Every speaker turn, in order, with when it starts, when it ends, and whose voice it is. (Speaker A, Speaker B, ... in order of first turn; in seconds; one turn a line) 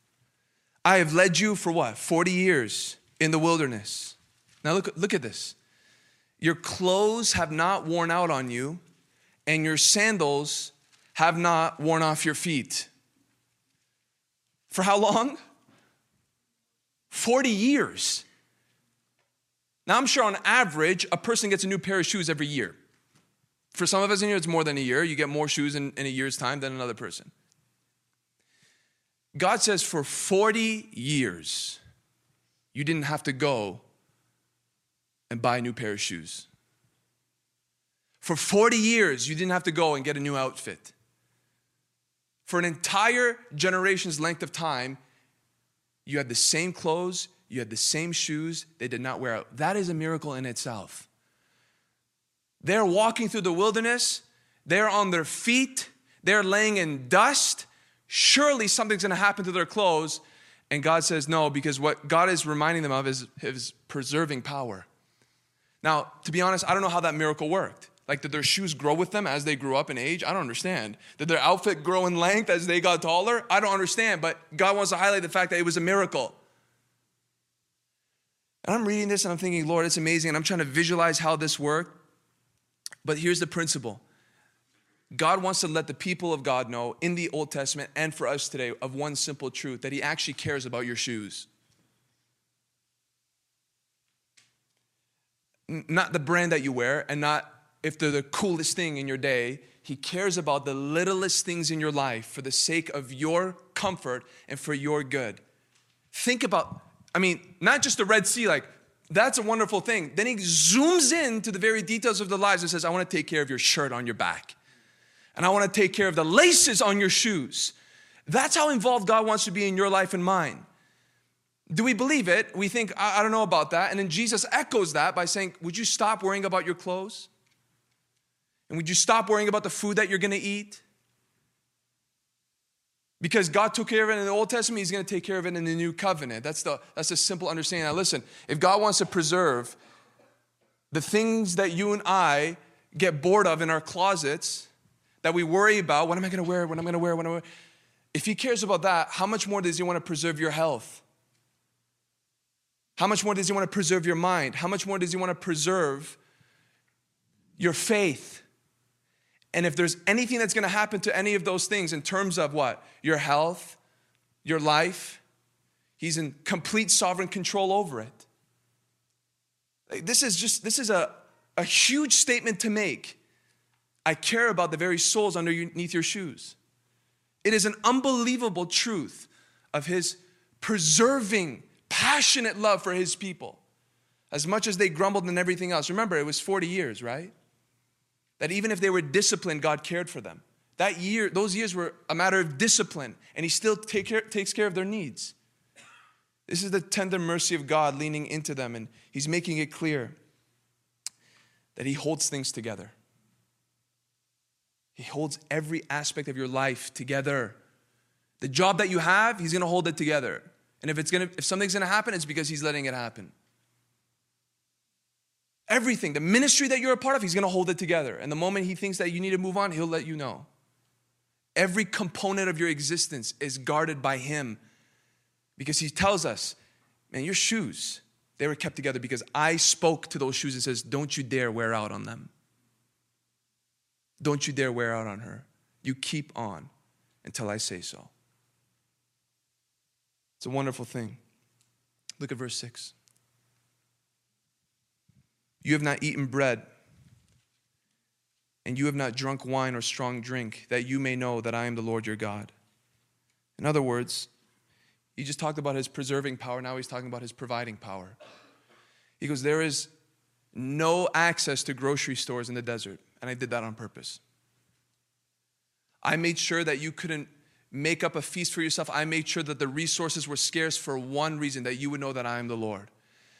Speaker A: 0.8-5.6
Speaker A: 6.4-8.8
Speaker A: 9.5-12.9
Speaker A: 14.7-15.4
Speaker A: 17.1-18.2
Speaker A: 19.9-22.8
Speaker A: 23.7-27.3
Speaker A: 29.3-31.8
Speaker A: 32.7-33.8
Speaker A: 35.3-36.5
Speaker A: 38.2-40.9
Speaker A: 42.5-45.0
Speaker A: 46.1-51.1
Speaker A: 52.6-64.9
Speaker A: 65.8-76.4
Speaker A: 78.6-82.0
Speaker A: 83.0-84.0
Speaker A: 85.1-91.5
Speaker A: 95.7-105.4
Speaker A: 106.1-114.5
Speaker A: 115.4-117.8
Speaker A: 118.3-120.7
Speaker A: 121.7-127.3
Speaker A: 128.7-130.8
Speaker A: 133.2-139.8
Speaker A: 140.9-144.7
Speaker A: 145.2-147.4
Speaker A: 148.1-151.0
Speaker A: 153.0-156.2
Speaker A: 157.6-158.4
Speaker A: 159.5-163.8
Speaker A: 164.4-165.2
Speaker A: 166.0-168.3
Speaker A: 169.9-173.2
Speaker A: 174.1-176.6
Speaker A: 177.4-183.6
Speaker A: 184.3-187.3
Speaker A: 188.4-195.3
Speaker A: 196.5-200.2
Speaker A: 201.8-202.9
Speaker A: 204.9-207.6
Speaker A: 208.4-213.3
Speaker A: 215.7-220.5
Speaker A: 221.6-224.6
Speaker A: 225.6-226.6
Speaker A: 227.1-232.3
Speaker A: 234.2-236.7
Speaker A: 237.2-238.1
Speaker A: 240.4-241.2
Speaker A: 242.2-242.9
Speaker A: 245.6-246.7
Speaker A: 248.7-252.5
Speaker A: 253.6-254.3
Speaker A: 255.2-258.2
Speaker A: 259.2-259.9
Speaker A: 260.5-264.2
Speaker A: 266.0-272.9